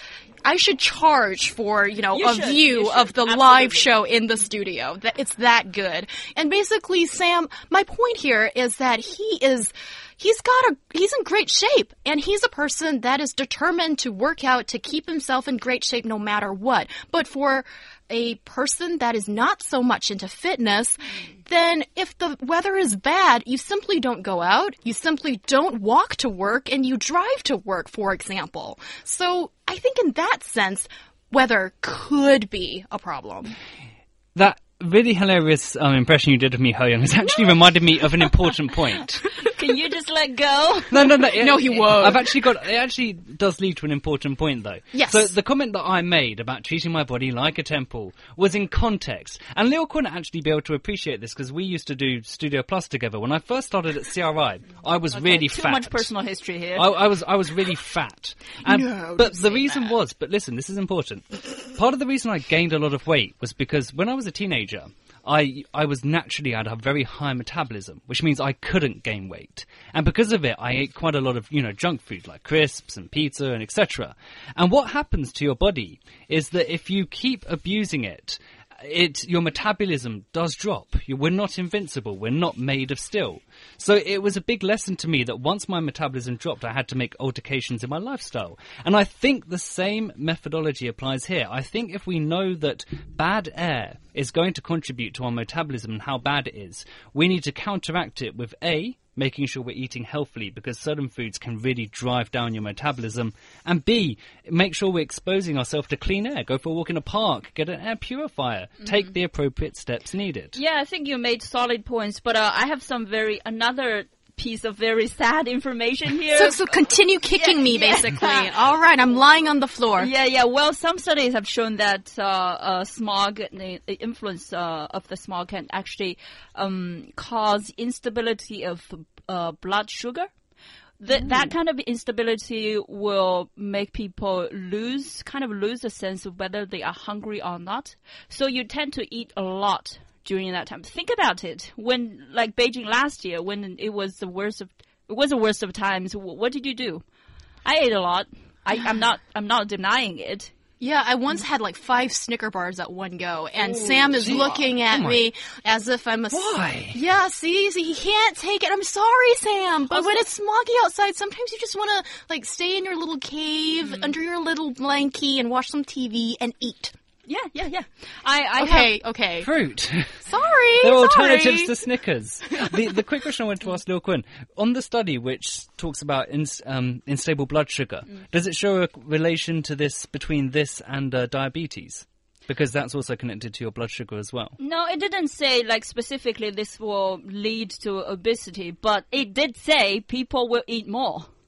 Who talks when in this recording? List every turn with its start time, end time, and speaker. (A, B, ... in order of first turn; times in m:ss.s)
0:00.4-0:33.6 A
0:02.1-0:03.9 B
0:34.4-0:39.3 C
0:39.4-0:41.1 B
0:40.9-0:56.1 C
0:41.3-0:42.4 A
0:44.9-0:45.3 A
0:55.1-0:56.9 B
0:56.8-1:50.6 C
0:58.7-0:59.4 A
1:50.6-1:56.7 B
1:56.3-2:00.1 A
1:57.4-1:58.5 B
2:00.0-2:10.3 B
2:11.0-2:27.0 B
2:27.6-2:30.5 B
2:30.8-2:46.9 A
2:33.6-2:35.3 C
2:36.3-2:37.0 C
2:39.9-2:40.2 B
2:47.3-2:49.0 B
2:48.6-2:49.5 A
2:49.4-2:50.2 C
2:50.2-2:51.7 A
2:50.8-3:04.6 C
3:04.6-3:11.3 B